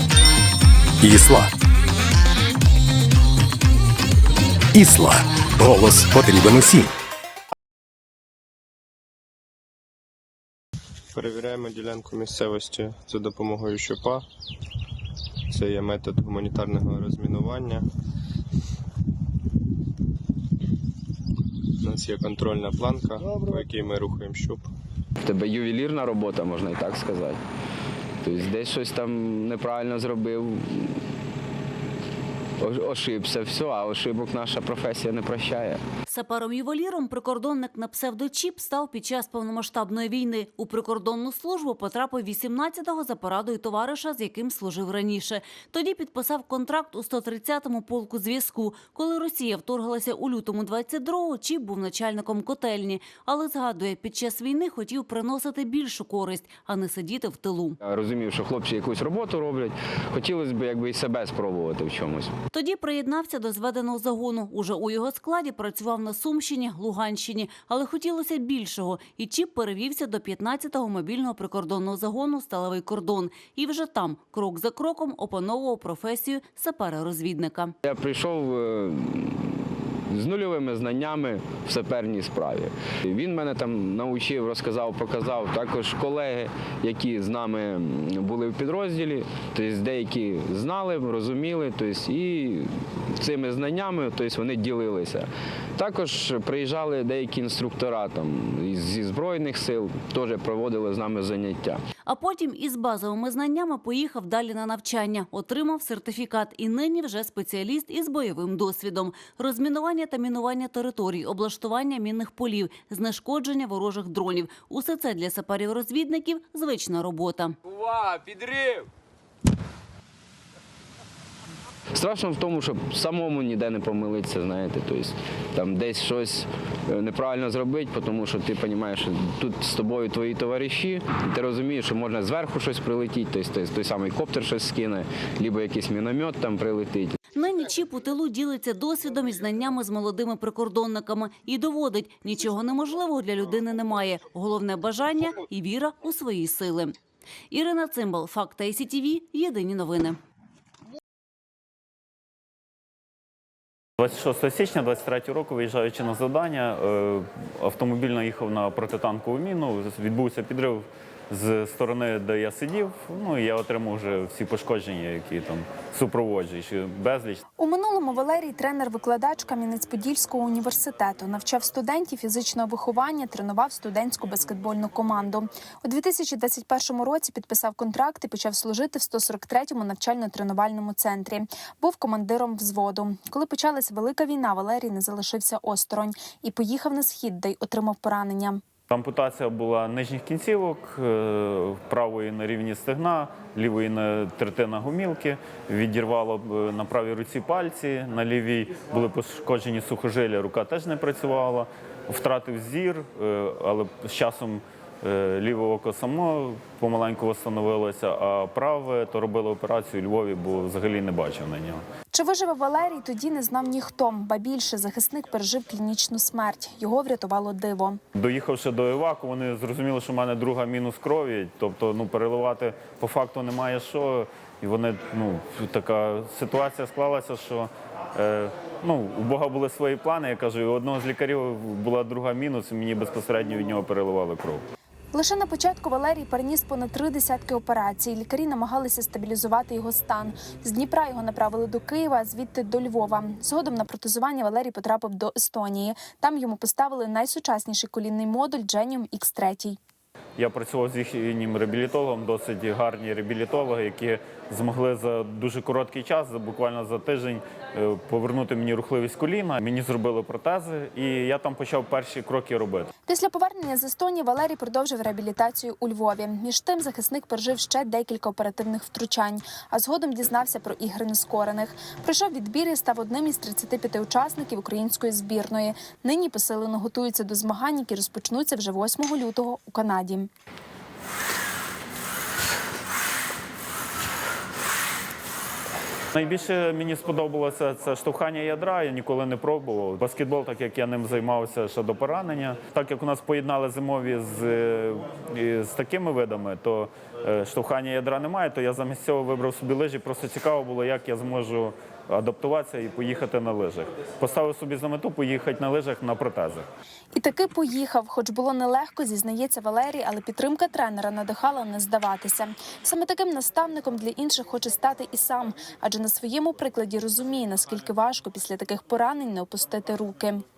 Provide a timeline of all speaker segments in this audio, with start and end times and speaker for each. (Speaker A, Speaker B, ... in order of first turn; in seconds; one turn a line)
Speaker A: 1.0-1.5
Speaker A: 4.7-6.9
Speaker B: 11.1-14.2
Speaker B: 15.5-17.9
Speaker B: 21.8-24.7
Speaker C: 25.2-27.4
Speaker C: 28.2-30.9
Speaker C: 32.6-35.8
Speaker D: 36.1-57.8
Speaker C: 57.9-62.3
Speaker D: 62.5-77.7
Speaker C: 77.8-79.5
Speaker C: 80.1-92.7
Speaker C: 93.2-101.8
Speaker D: 102.0-117.5
Speaker C: 122.0-137.1
Speaker D: 137.3-146.9
Speaker D: 147.5-150.2
Speaker E: 154.0-167.4
Speaker F: 167.6-188.6
Speaker E: 188.9-211.8
Speaker F: 212.1-218.0
Speaker E: 218.1-234.6
Speaker F: 235.1-249.8
Speaker E: 250.4-262.9
Speaker F: 263.1-280.3
Speaker E: 286.1-306.7
Speaker F: 307.1-320.4